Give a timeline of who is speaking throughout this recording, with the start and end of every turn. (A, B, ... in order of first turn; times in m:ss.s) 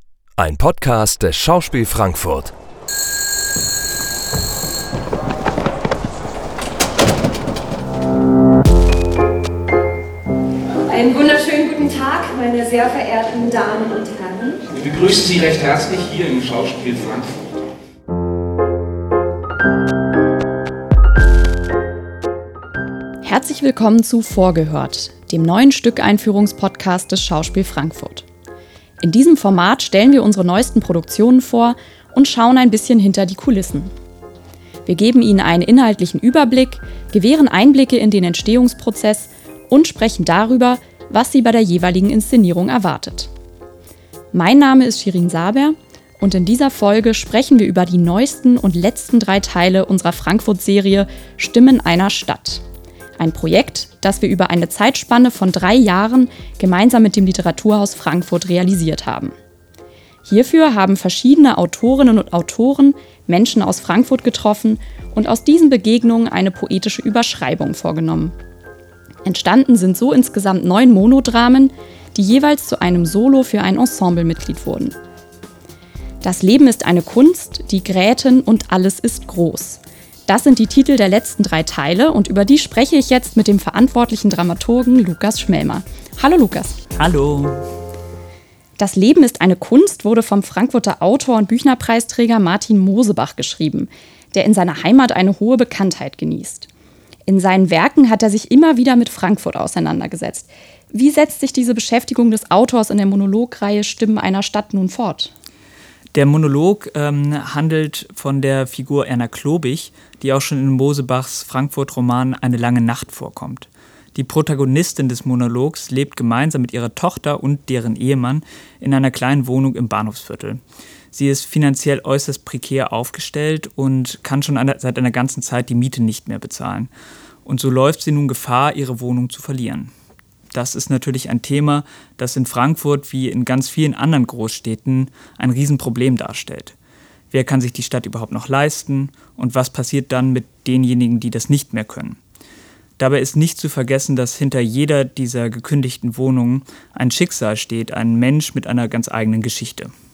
0:00.4-0:02.5 A
0:10.9-0:16.3 B
0:14.9-0:17.3 C
0:23.2-0:28.3 D
0:29.0-0:33.9 D
0:34.8-0:43.3 D
0:44.3-0:52.6 D
0:53.2-0:59.3 D
1:00.2-1:08.4 D
1:09.2-1:15.0 D
1:16.2-1:26.8 D
1:27.0-1:27.6 E
1:28.8-1:36.7 D
1:37.3-1:45.3 D
1:46.1-2:00.6 E
2:01.1-2:06.9 E
2:07.4-2:09.9 E
2:10.5-2:16.8 E
2:17.3-2:22.2 E
2:23.0-2:29.9 E